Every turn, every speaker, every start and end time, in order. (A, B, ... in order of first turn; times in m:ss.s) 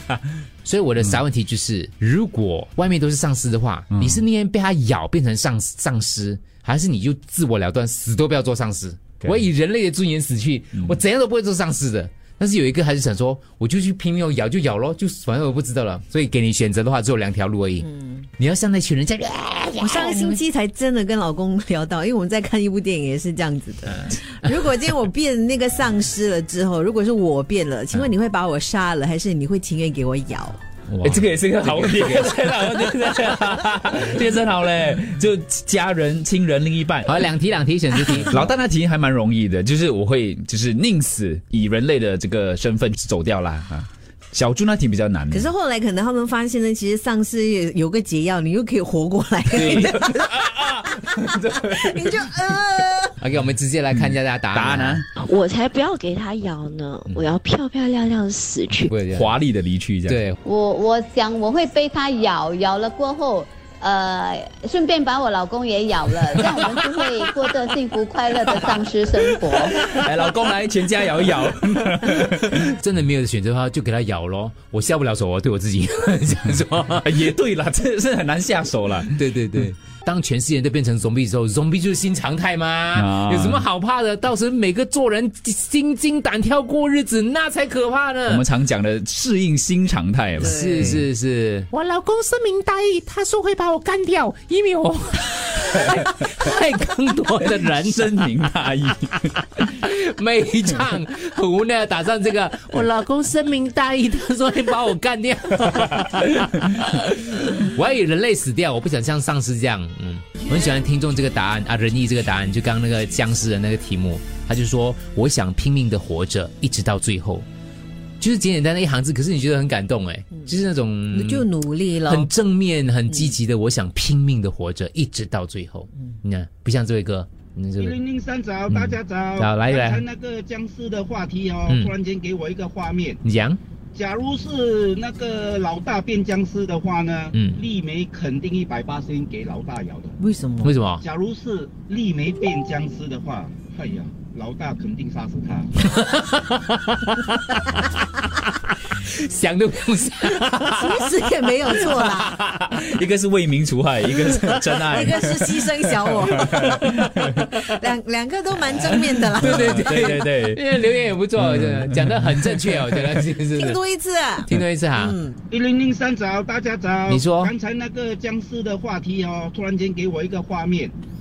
0:00.6-0:20.4 A
0:17.8-0:18.3 B
0:19.8-0:30.6 B
0:30.9-0:33.6 A
0:31.0-0:37.2 C
0:37.0-0:38.4 A
0:38.3-0:45.5 C
0:45.3-0:53.2 B
0:49.6-0:50.9 C
0:53.2-0:55.0 A
0:53.9-0:55.0 C
0:55.2-0:59.0 D
0:58.9-0:59.3 A
0:59.1-1:00.2 C
1:00.1-1:00.4 A
1:00.4-1:09.8 E
1:09.8-1:12.4 C
1:12.0-1:17.3 A
1:17.0-1:19.2 C
1:19.2-1:28.4 A
1:23.0-1:23.7 C
1:28.3-1:31.0 C
1:30.4-1:31.0 B
1:30.4-1:38.2 A
1:37.4-1:39.6 C
1:39.6-1:57.4 A
1:58.2-2:01.4 A
2:01.1-2:02.3 B
2:02.0-2:08.0 A
2:07.8-2:13.2 F
2:08.7-2:10.0 A
2:11.7-2:11.9 A
2:13.2-2:13.6 A
2:13.9-2:20.2 F
2:17.3-2:17.6 A
2:20.2-2:20.7 B
2:20.6-2:21.0 A
2:21.0-2:25.7 F
2:25.9-2:31.0 A
2:30.8-2:32.4 B
2:31.8-2:32.5 A
2:32.6-2:35.4 C
2:34.1-2:36.9 B
2:36.4-2:37.5 C
2:37.6-2:40.2 B
2:38.9-2:43.8 A
2:39.5-2:40.6 C
2:41.4-2:43.0 C
2:43.5-2:45.4 B
2:44.5-2:45.2 A
2:45.5-2:50.9 F
2:47.1-2:47.5 A